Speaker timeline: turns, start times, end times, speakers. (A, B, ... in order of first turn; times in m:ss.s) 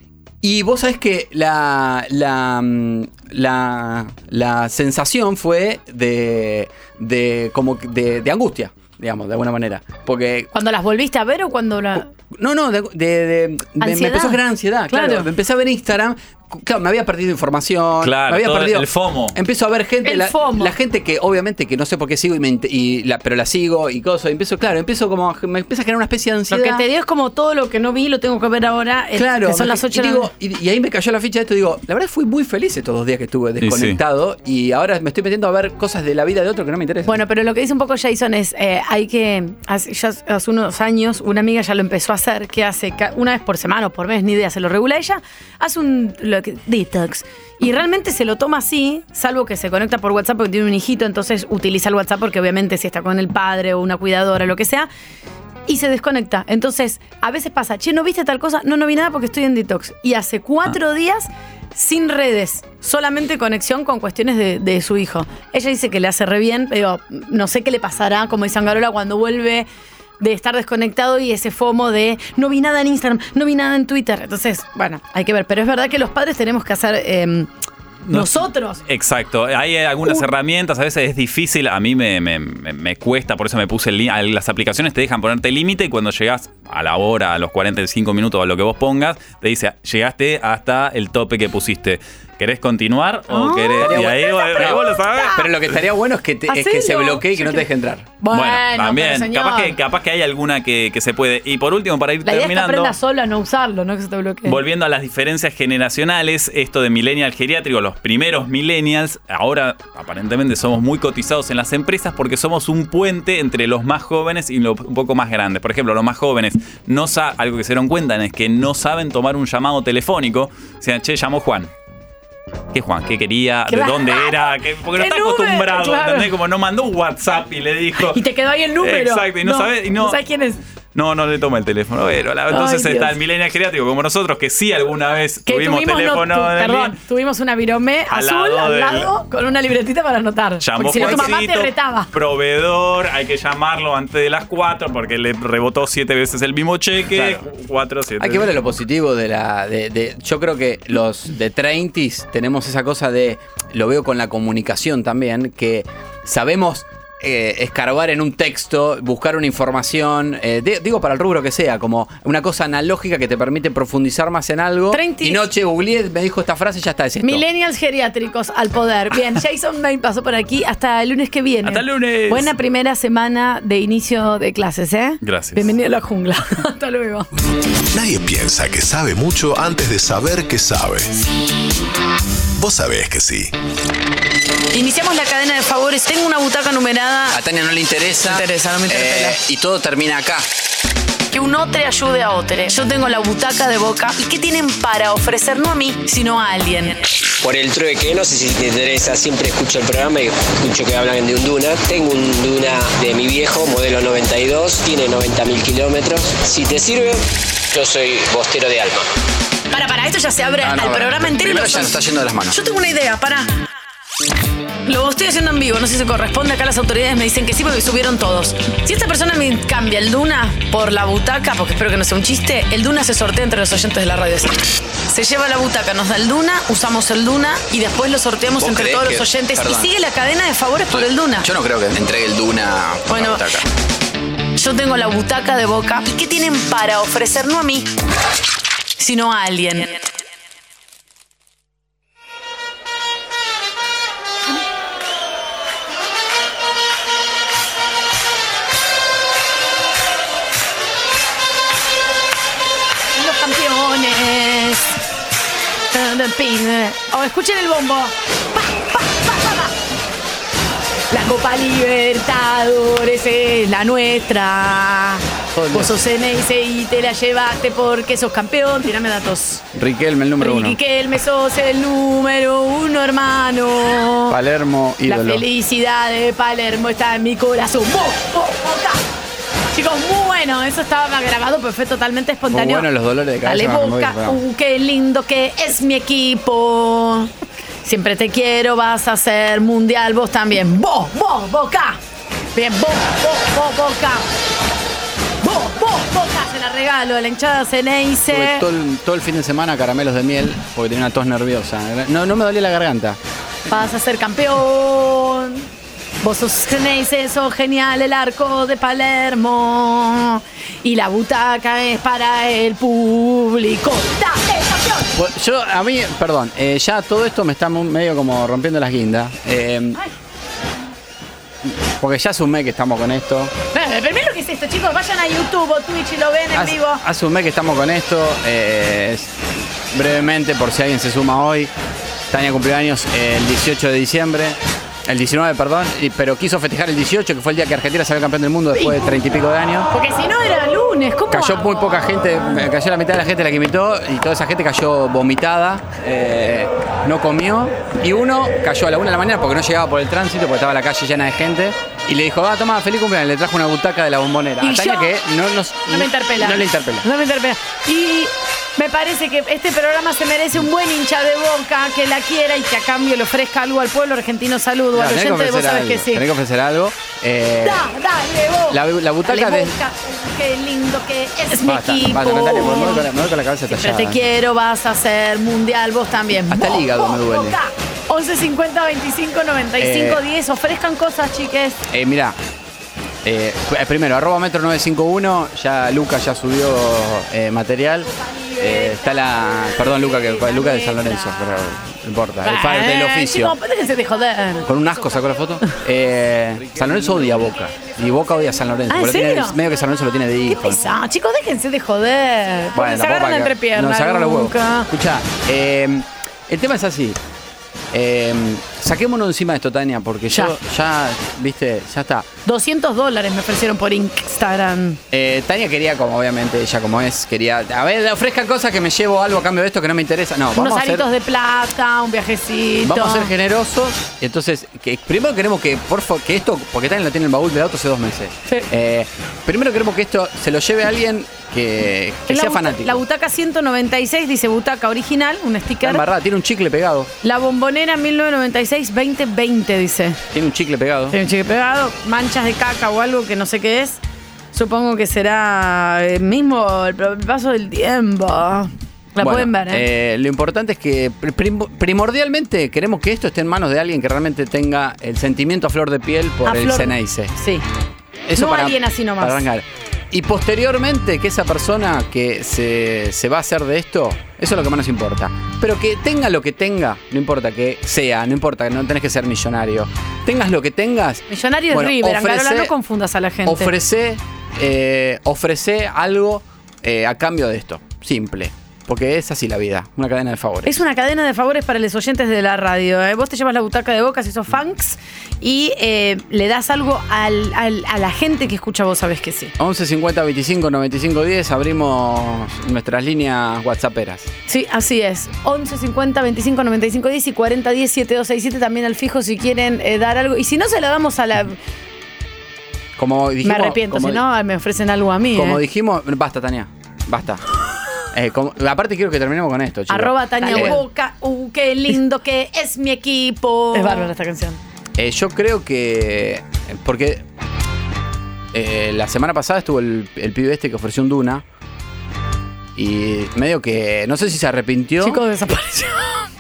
0:00.4-0:10.5 A
0:10.5-0:12.1 B
0:12.3-0:26.8 A
0:13.8-0:15.3 B
0:18.0-0:19.4 C
0:20.0-0:20.8 B
0:26.5-0:30.3 B
0:29.2-0:37.1 A
0:33.6-0:34.0 C
0:37.1-0:54.9 B
0:55.7-1:09.7 B
1:10.2-1:17.5 B
1:18.1-1:35.4 C
1:18.1-1:18.8 B
1:33.3-1:35.5 B
1:33.8-1:38.2 A
1:36.5-1:37.6 B
1:38.2-1:39.8 B
1:38.3-1:43.0 C
1:42.2-1:44.6 B
1:44.5-2:01.7 C
2:02.7-2:08.2 C
2:03.7-2:06.3 B
2:08.0-2:10.6 B
2:08.8-2:10.2 C
2:10.9-2:17.0 C
2:12.5-2:13.1 B
2:15.5-2:22.1 B
2:18.1-2:19.1 C
2:20.6-2:28.5 C
2:27.1-2:27.4 A
2:28.2-2:47.4 A
2:44.9-2:45.4 B
2:47.2-2:57.3 B
2:51.6-2:52.5 C
2:55.2-2:55.7 C
2:57.9-3:01.2 D
3:02.6-3:03.5 D
3:04.7-3:07.4 B
3:07.3-3:10.5 A
3:08.2-3:09.4 B
3:11.3-3:17.0 B
3:17.4-3:29.1 E
3:29.7-3:32.0 B
3:30.6-3:32.6 A
3:32.5-3:33.5 B
3:34.9-3:51.5 B
3:48.6-3:49.9 A
3:50.9-3:53.6 A
3:53.1-3:53.4 B
3:54.6-3:57.9 B
3:59.0-4:00.0 B
4:13.2-4:14.8 B
4:15.9-4:19.7 B
4:21.1-4:29.6 B
4:25.6-4:26.0 A
4:29.8-4:30.8 A
4:30.4-4:34.4 B
4:34.3-4:35.4 A
4:35.1-4:39.0 B
4:39.7-4:42.9 B
4:42.5-4:44.4 A
4:43.4-4:47.3 B
4:47.8-4:52.0 B
4:52.6-4:54.3 B
4:55.4-4:58.6 B
4:58.3-5:03.2 A
5:03.7-5:05.7 B
5:06.2-5:15.1 B
5:15.2-5:20.0 A
5:21.6-5:23.5 A
5:23.7-5:27.0 B
5:26.5-5:29.3 A
5:29.9-5:31.7 A
5:32.3-5:39.9 A
5:38.8-5:39.1 B
5:39.9-5:42.2 B
5:41.3-5:57.1 A
5:54.6-5:55.1 B
5:55.9-6:06.2 B
6:04.9-6:07.9 A
6:07.6-6:13.1 B
6:08.7-6:09.7 A
6:11.6-6:14.2 A
6:13.7-6:21.8 B
6:16.5-6:17.6 A
6:19.8-6:20.2 A
6:21.9-6:22.4 A
6:23.2-6:33.6 A
6:28.2-6:31.4 B
6:32.4-6:35.0 B
6:34.7-6:40.8 A
6:38.9-6:39.6 B
6:40.5-6:44.9 B
6:42.8-6:47.2 A
6:47.9-6:52.3 A
6:52.5-6:55.0 B
6:55.1-7:01.1 A
7:00.6-7:03.3 B
7:02.8-7:13.0 A
7:12.3-7:16.0 B
7:15.8-7:17.1 A
7:17.2-7:20.2 B
7:20.3-7:21.2 A
7:21.1-7:24.0 B
7:24.5-7:29.8 B
7:29.2-7:37.3 A
7:36.5-7:37.6 B
7:38.3-7:52.7 A
7:38.4-7:39.4 B
7:51.3-7:53.7 B
7:53.4-8:00.8 A
8:00.7-8:09.5 B
8:09.6-8:14.3 A
8:14.5-8:21.6 B
8:23.0-8:24.2 A
8:23.4-8:25.6 B
8:25.3-8:27.4 A
8:28.1-8:30.8 A
8:29.9-8:34.6 B
8:35.0-8:37.2 A
8:38.5-8:41.4 A
8:42.8-8:45.2 A
8:45.0-8:46.3 B